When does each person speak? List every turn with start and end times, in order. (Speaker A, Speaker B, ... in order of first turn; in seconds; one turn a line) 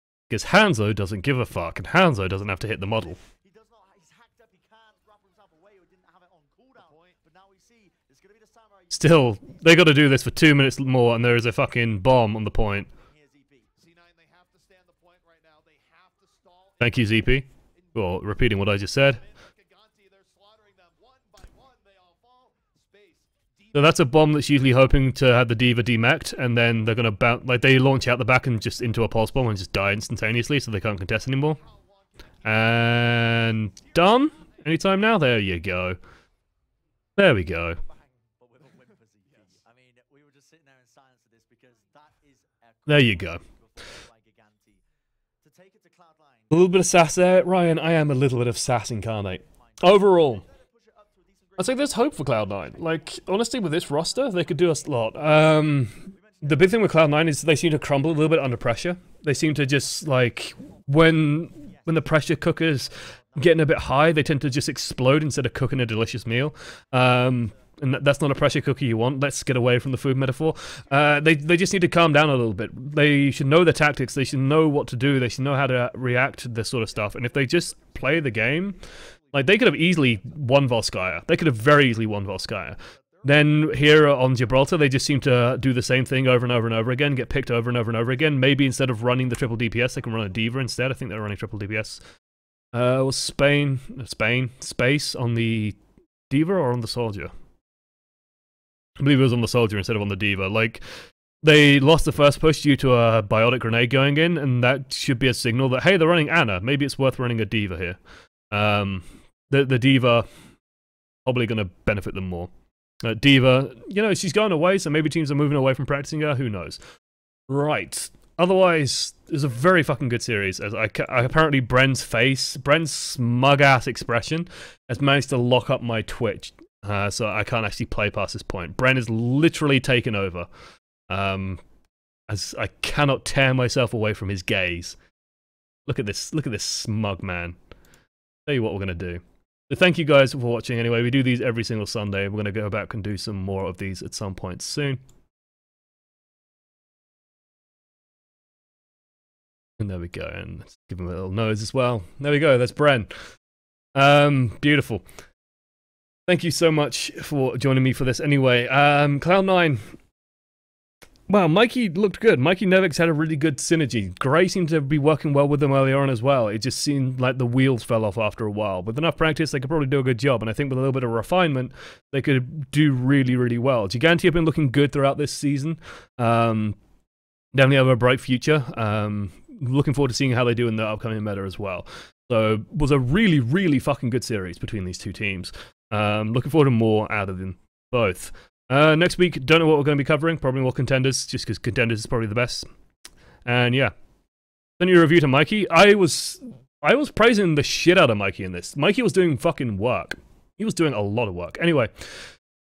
Speaker A: 0.3-3.2
Speaker B: 3.4-9.5
Speaker C: 6.8-7.1
Speaker A: 8.9-12.9
Speaker B: 13.0-13.7
Speaker C: 13.8-17.2
Speaker A: 16.8-19.2
Speaker C: 17.8-24.1
Speaker A: 23.7-31.6
Speaker C: 31.5-33.9
Speaker A: 32.4-36.0
Speaker A: 37.2-37.8
Speaker B: 37.8-44.8
Speaker A: 42.9-43.4
Speaker B: 45.4-46.5
Speaker A: 46.5-50.4
Speaker B: 49.5-53.3
Speaker A: 51.6-92.0
Speaker B: 53.9-54.7
Speaker B: 56.0-56.8
Speaker B: 61.6-63.8
Speaker C: 79.3-79.6
Speaker C: 83.0-83.6
Speaker A: 92.7-95.8
Speaker A: 96.3-97.3
Speaker A: 99.0-100.9
Speaker A: 101.4-108.0
Speaker A: 108.5-110.3
Speaker A: 111.2-112.5
Speaker A: 113.0-116.8
Speaker A: 117.5-130.5
Speaker A: 131.1-131.6
Speaker A: 132.3-135.0
Speaker A: 135.9-137.6
Speaker A: 138.5-145.0
Speaker A: 149.8-153.1
Speaker A: 153.9-155.1
Speaker A: 156.3-159.9
Speaker A: 161.3-176.8
Speaker A: 177.5-192.7
Speaker A: 193.5-193.9
Speaker A: 194.8-202.1